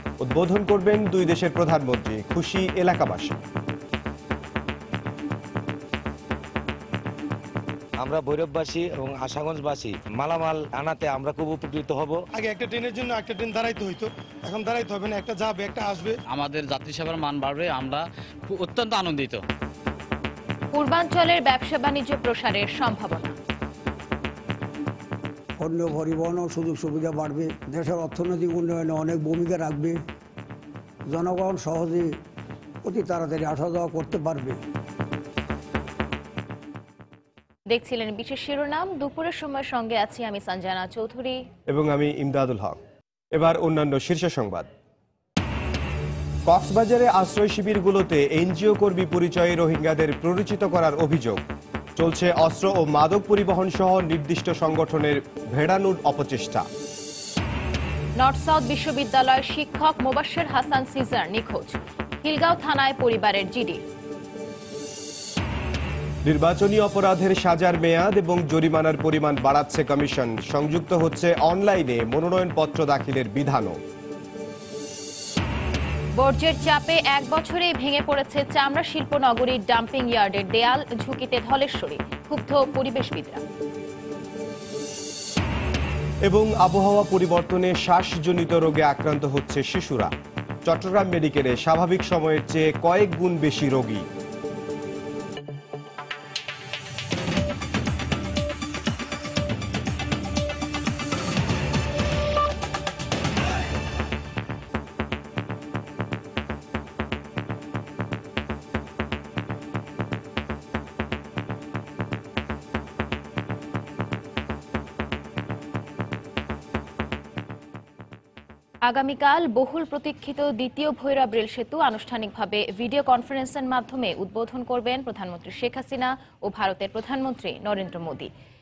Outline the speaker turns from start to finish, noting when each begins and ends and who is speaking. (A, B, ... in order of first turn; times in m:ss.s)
0:00.2-0:03.4 A
0:08.0-0:12.2 B
0:12.4-0:16.1 C
0:16.3-0:19.4 D
0:20.7-0:23.3 E
0:25.6-0:30.0 F
0:31.1-0:32.2 F
0:32.8-0:34.6 F
0:37.7-0:41.4 E
0:41.7-0:42.8 A
0:43.4-0:44.7 A
0:46.5-0:51.4 A
0:52.0-0:56.7 A
0:58.2-1:03.8 E
1:06.2-1:13.8 A
1:16.2-1:23.4 E
1:26.3-1:30.1 A
1:30.7-1:34.1 A
1:58.9-2:08.3 E